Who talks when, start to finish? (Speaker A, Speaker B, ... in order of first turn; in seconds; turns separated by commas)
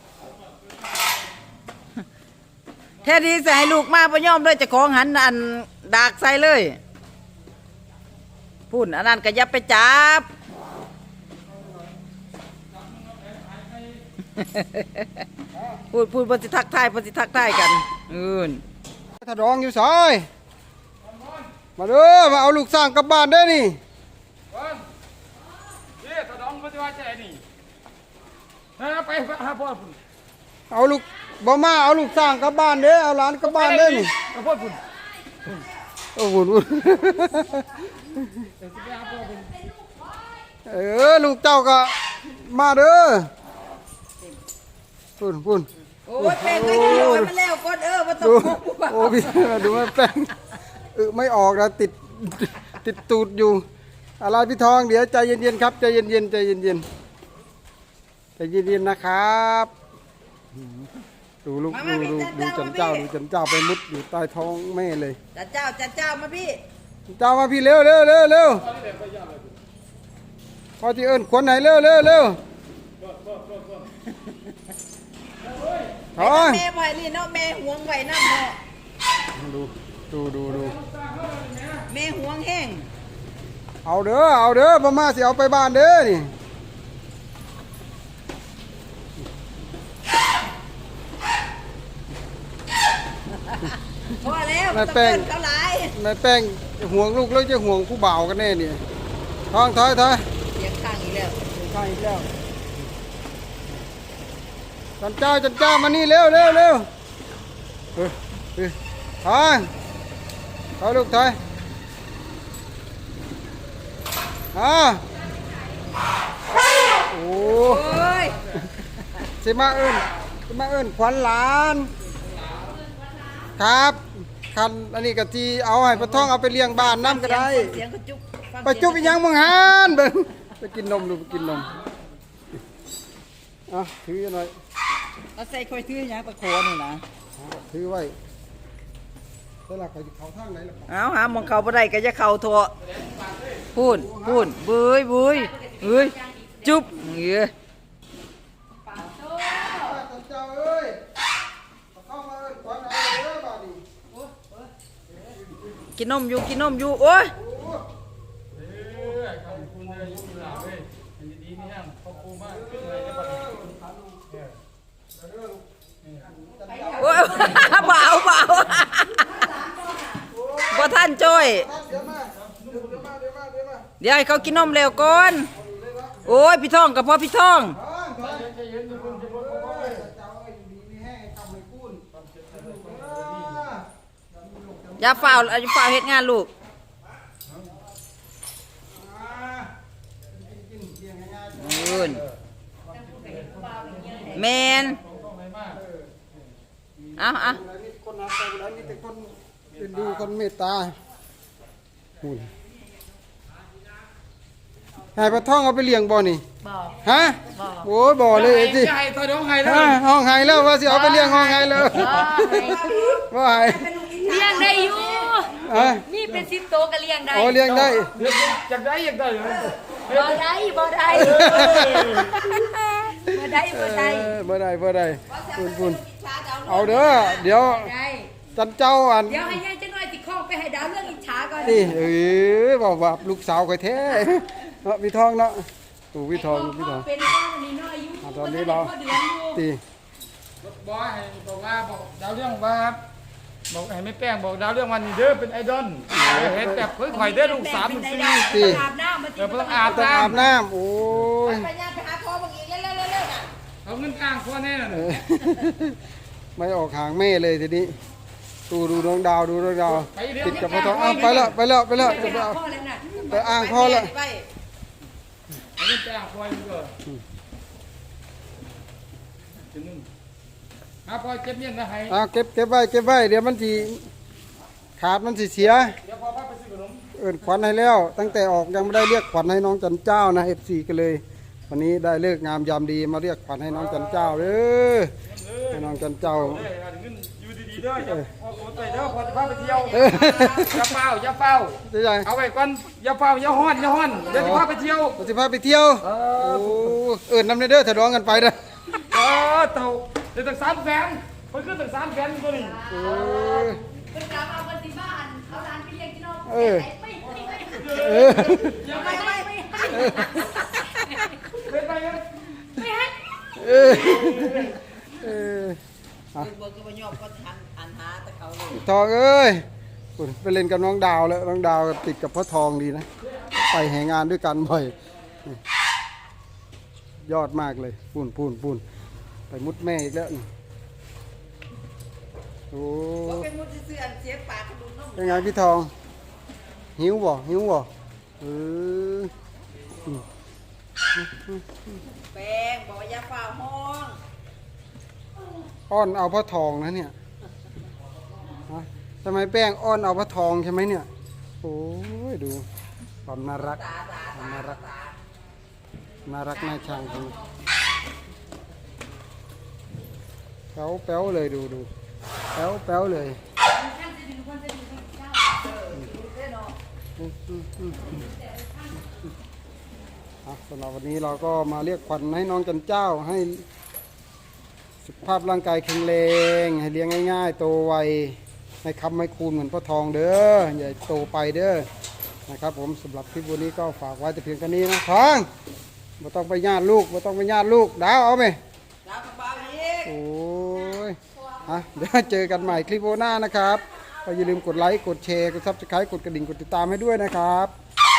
Speaker A: 3.0-6.8, Speaker A: 8.7-10.3, Speaker B: 12.8-14.0, Speaker A: 14.3-15.2, Speaker A: 15.9-18.6, Speaker C: 19.1-20.3, Speaker B: 21.1-21.4, Speaker C: 21.8-23.8, Speaker B: 24.5-24.8, Speaker B: 26.0-27.4, Speaker B: 28.8-30.0, Speaker C: 30.7-34.1, Speaker B: 33.4-34.8, Speaker C: 36.1-38.5, Speaker B: 38.6-39.6, Speaker C: 40.6-43.3, Speaker C: 45.2-47.3, Speaker A: 46.1-49.9, Speaker C: 48.2-50.3, Speaker C: 50.9-53.6, Speaker C: 54.2-56.8, Speaker C: 58.4-59.7, Speaker C: 61.4-65.2, Speaker A: 61.7-63.1, Speaker A: 65.3-66.6, Speaker C: 67.1-68.7, Speaker C: 70.8-72.4, Speaker A: 74.1-74.3, Speaker C: 76.2-76.6, Speaker A: 76.2-78.6, Speaker C: 79.3-80.8, Speaker B: 80.8-81.8, Speaker A: 81.8-82.9, Speaker C: 83.8-86.3, Speaker A: 93.5-96.0, Speaker C: 94.7-95.3, Speaker C: 95.9-98.8, Speaker C: 99.5-100.2, Speaker A: 100.5-101.4, Speaker C: 101.5-102.3, Speaker C: 105.0-106.9, Speaker C: 108.0-109.7, Speaker C: 110.8-111.4, Speaker C: 114.5-115.0, Speaker C: 116.9-117.9, Speaker A: 117.0-119.0, Speaker C: 119.4-121.9, Speaker C: 123.6-127.8, Speaker A: 125.9-129.4, Speaker C: 128.6-131.8, Speaker C: 133.7-134.5, Speaker A: 135.3-137.0, Speaker C: 137.4-138.2, Speaker C: 139.7-140.9, Speaker A: 140.9-142.7, Speaker A: 143.7-147.5, Speaker C: 143.8-144.5, Speaker D: 145.4-146.7, Speaker D: 148.9-150.0, Speaker C: 149.7-151.0, Speaker C: 151.9-153.8, Speaker A: 155.9-157.3, Speaker C: 157.3-157.8, Speaker B: 158.6-163.4, Speaker C: 159.4-160.7, Speaker C: 162.4-164.2, Speaker C: 165.2-165.6, Speaker C: 166.3-167.9, Speaker D: 166.7-167.0, Speaker A: 166.9-169.5, Speaker D: 169.2-170.3, Speaker C: 170.3-173.9, Speaker A: 170.7-171.7, Speaker B: 172.5-172.9, Speaker A: 174.0-175.5, Speaker C: 175.4-176.4, Speaker A: 176.2-177.8, Speaker C: 177.7-185.5, Speaker B: 178.2-179.9, Speaker B: 183.0-183.5, Speaker A: 185.0-186.5, Speaker C: 188.9-189.7, Speaker C: 190.3-192.2, Speaker A: 191.5-192.2, Speaker D: 192.9-194.6, Speaker B: 193.2-194.2, Speaker A: 194.3-195.0, Speaker B: 194.9-195.8, Speaker C: 195.7-196.1, Speaker A: 197.2-197.6, Speaker C: 197.4-200.9, Speaker C: 202.2-202.5, Speaker C: 205.1-206.4, Speaker D: 206.6-207.9, Speaker C: 207.0-209.0, Speaker B: 208.3-210.0, Speaker C: 209.6-213.9, Speaker D: 210.7-212.8, Speaker A: 212.6-215.5, Speaker D: 214.2-217.6, Speaker C: 215.5-216.1, Speaker B: 215.7-216.4, Speaker C: 217.3-218.3, Speaker B: 217.8-220.4, Speaker D: 220.1-221.8, Speaker C: 221.2-222.7, Speaker B: 221.8-222.2, Speaker A: 222.2-223.0, Speaker D: 223.1-224.4, Speaker C: 223.3-226.0, Speaker A: 225.3-227.5, Speaker C: 226.7-227.9, Speaker D: 227.4-228.3, Speaker C: 228.5-229.6, Speaker D: 229.3-231.9, Speaker C: 231.6-237.1, Speaker D: 236.3-239.6, Speaker C: 238.2-239.8, Speaker B: 240.6-243.0, Speaker B: 243.7-248.6, Speaker C: 246.1-246.9, Speaker D: 246.9-250.4, Speaker C: 248.5-248.9, Speaker B: 249.4-250.4, Speaker C: 249.8-251.7, Speaker A: 251.4-253.5, Speaker B: 253.8-255.2, Speaker C: 254.9-256.0, Speaker C: 256.6-257.9, Speaker C: 258.7-262.6, Speaker B: 260.0-261.5, Speaker D: 260.6-261.4, Speaker D: 261.9-263.2, Speaker A: 263.2-264.5, Speaker C: 263.3-264.1, Speaker B: 265.8-266.9, Speaker B: 269.7-270.1, Speaker B: 271.1-272.1, Speaker C: 272.1-274.1, Speaker C: 275.0-276.0, Speaker B: 276.0-277.0, Speaker C: 277.1-285.1, Speaker B: 285.3-290.0, Speaker C: 285.7-286.7, Speaker C: 287.9-288.3, Speaker A: 288.6-290.9, Speaker C: 289.9-290.7, Speaker B: 290.6-295.1, Speaker C: 291.8-292.3, Speaker A: 293.9-294.5, Speaker C: 294.3-298.6, Speaker B: 296.0-296.9, Speaker B: 299.1-303.5, Speaker D: 302.5-311.6, Speaker C: 302.9-303.8, Speaker C: 306.4-306.9, Speaker B: 307.3-309.1, Speaker C: 307.9-308.8, Speaker A: 308.8-311.0, Speaker B: 311.5-312.5, Speaker D: 312.7-313.4, Speaker C: 313.5-315.8, Speaker B: 314.2-314.7, Speaker A: 316.3-318.9, Speaker C: 318.7-319.6, Speaker C: 320.2-325.6, Speaker C: 327.2-328.8, Speaker C: 329.5-330.5, Speaker C: 332.7-333.5, Speaker A: 333.2-335.5, Speaker C: 335.1-335.9, Speaker C: 337.0-337.9, Speaker C: 338.4-339.3, Speaker C: 341.1-342.0, Speaker A: 342.1-344.2, Speaker C: 345.9-347.1, Speaker C: 348.7-351.1, Speaker C: 351.6-352.6, Speaker C: 353.2-353.8, Speaker A: 353.6-355.2, Speaker C: 354.3-354.8, Speaker C: 356.2-357.4, Speaker C: 360.7-361.9, Speaker C: 362.5-363.4, Speaker D: 363.7-365.6, Speaker A: 365.5-366.8, Speaker C: 367.2-368.2, Speaker D: 368.4-368.9, Speaker C: 370.4-373.6, Speaker C: 375.0-381.9, Speaker C: 382.5-385.5, Speaker C: 386.2-388.6, Speaker A: 389.0-390.1, Speaker C: 390.0-397.7